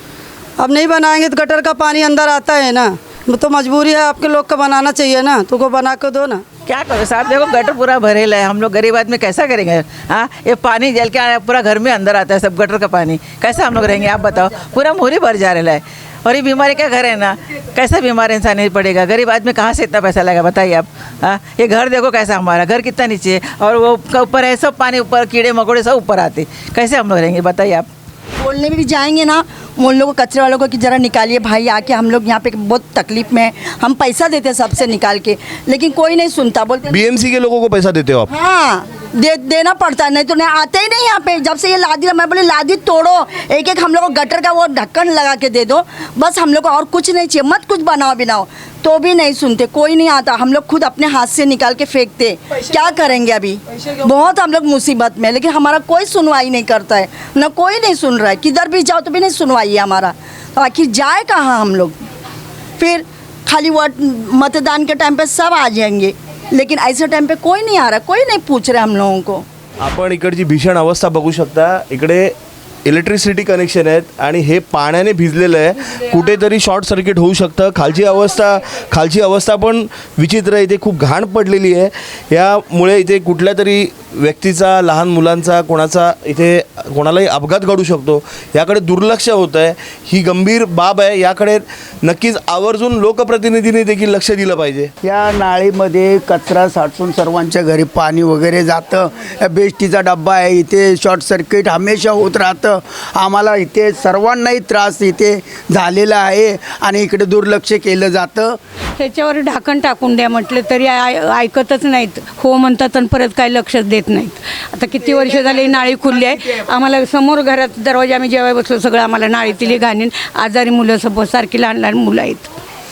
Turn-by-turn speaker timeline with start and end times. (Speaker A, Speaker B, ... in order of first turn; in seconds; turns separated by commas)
Speaker A: 0.6-6.4, Speaker B: 6.7-27.9, Speaker C: 28.4-37.0, Speaker D: 36.9-38.3, Speaker C: 38.3-62.0, Speaker C: 62.8-69.4, Speaker D: 69.8-72.3, Speaker D: 72.8-94.9, Speaker E: 95.0-108.6, Speaker F: 109.0-122.5